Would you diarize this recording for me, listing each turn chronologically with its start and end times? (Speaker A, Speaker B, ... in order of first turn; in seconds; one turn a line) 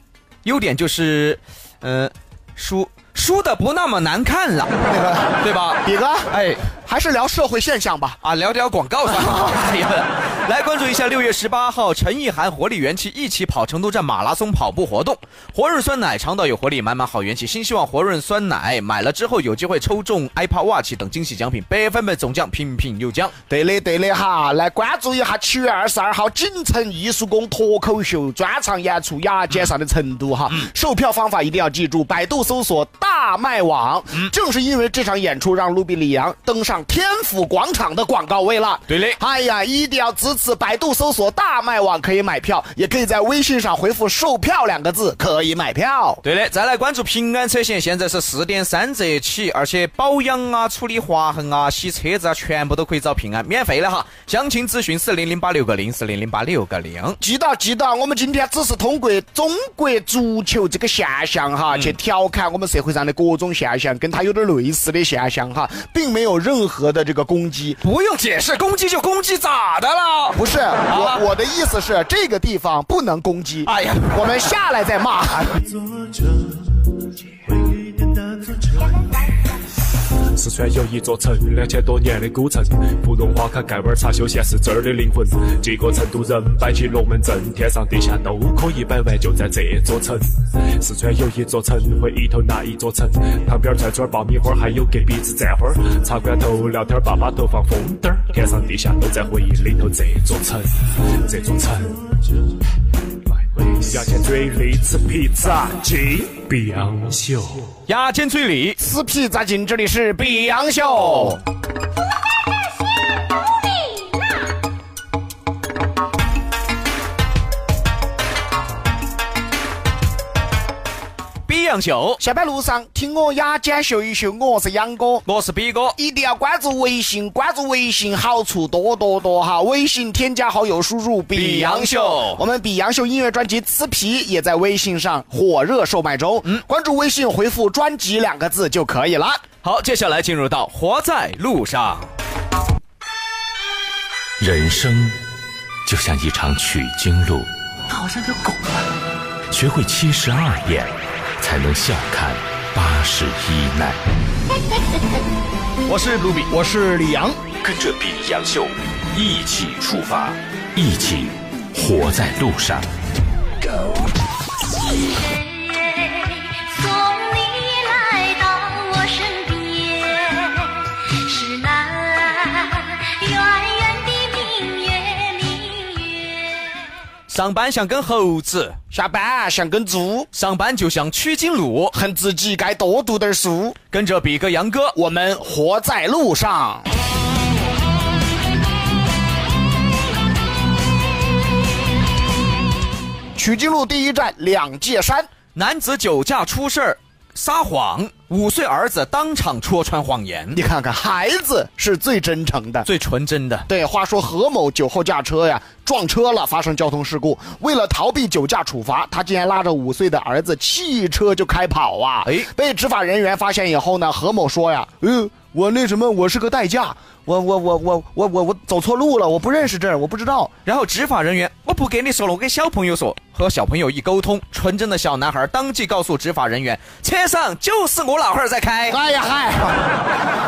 Speaker A: 0.4-4.8
Speaker B: 4.8-8.2
Speaker A: 5.4-6.6
Speaker A: 8.2-23.3
Speaker B: 23.5-46.2
Speaker A: 38.9-39.2
Speaker A: 46.2-57.2
Speaker B: 57.2-67.8
Speaker A: 67.8-71.2
Speaker B: 70.3-75.6
Speaker A: 73.6-74.5
Speaker C: 77.5-77.8
Speaker C: 80.1-102.0
Speaker C: 103.3-107.7
Speaker A: 107.9-108.8
Speaker B: 108.8-111.4
Speaker D: 112.4-114.5
Speaker A: 121.5-122.2
Speaker B: 122.2-125.2
Speaker A: 125.2-126.0
Speaker B: 126.0-139.4
Speaker A: 131.3-132.4
Speaker A: 139.6-142.1
Speaker E: 144.4-145.2
Speaker E: 145.8-148.8
Speaker E: 149.5-154.0
Speaker A: 155.9-156.5
Speaker B: 156.5-157.4
Speaker E: 157.6-162.9
Speaker D: 165.0-176.9
Speaker A: 177.3-178.8
Speaker B: 178.9-180.3
Speaker A: 180.3-181.9
Speaker B: 181.9-183.8
Speaker A: 183.9-185.0
Speaker B: 184.9-186.8
Speaker B: 193.3-195.3
Speaker A: 195.5-200.6
Speaker B: 200.5-202.9
Speaker A: 202.8-203.7
Speaker B: 203.7-220.5
Speaker A: 220.7-229.0
Speaker B: 228.9-229.9